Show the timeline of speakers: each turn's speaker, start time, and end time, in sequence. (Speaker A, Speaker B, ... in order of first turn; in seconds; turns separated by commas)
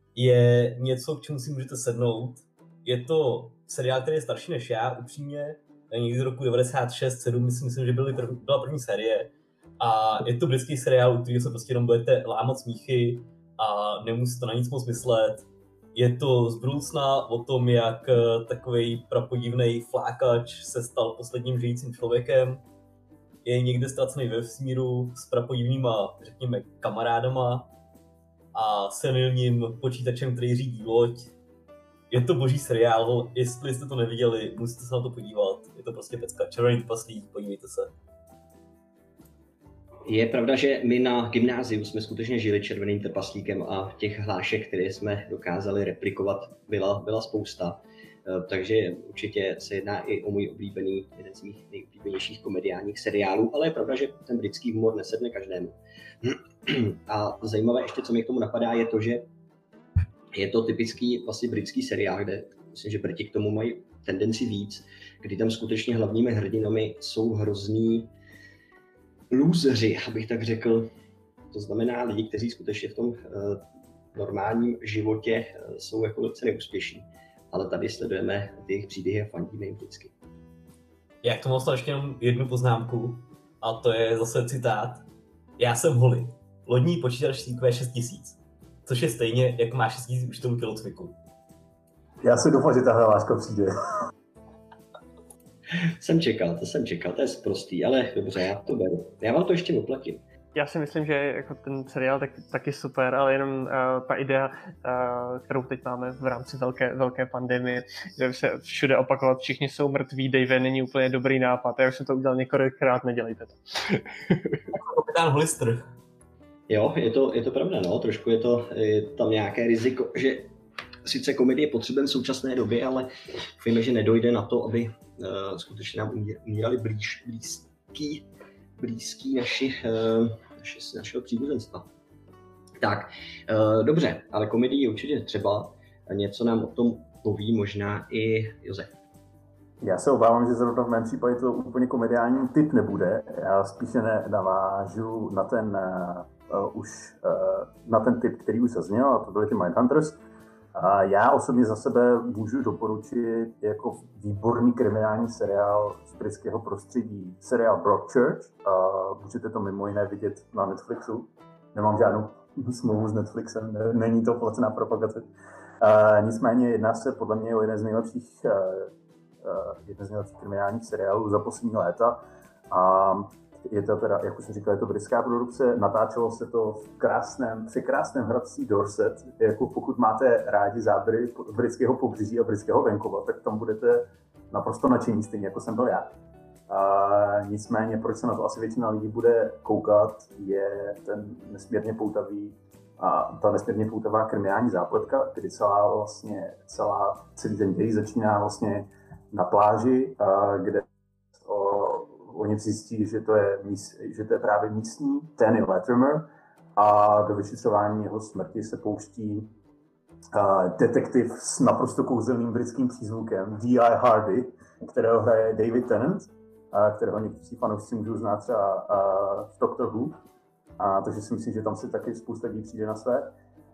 Speaker A: 0.1-22.6, Speaker A: 23.4-27.7, Speaker A: 28.5-31.3, Speaker A: 32.1-37.9, Speaker B: 40.0-59.3, Speaker B: 60.3-68.1, Speaker B: 69.3-70.9, Speaker B: 71.5-80.1, Speaker A: 81.2-85.0, Speaker A: 85.6-91.2, Speaker C: 92.2-93.7, Speaker B: 96.0-100.2, Speaker D: 100.5-114.6, Speaker A: 114.7-115.9, Speaker B: 116.7-128.2, Speaker B: 128.8-131.9, Speaker B: 132.8-138.9, Speaker C: 139.8-150.2, Speaker C: 150.7-165.2, Speaker C: 165.8-186.1, Speaker C: 186.7-200.8, Speaker C: 201.4-209.5, Speaker C: 210.3-220.2, Speaker C: 220.8-223.3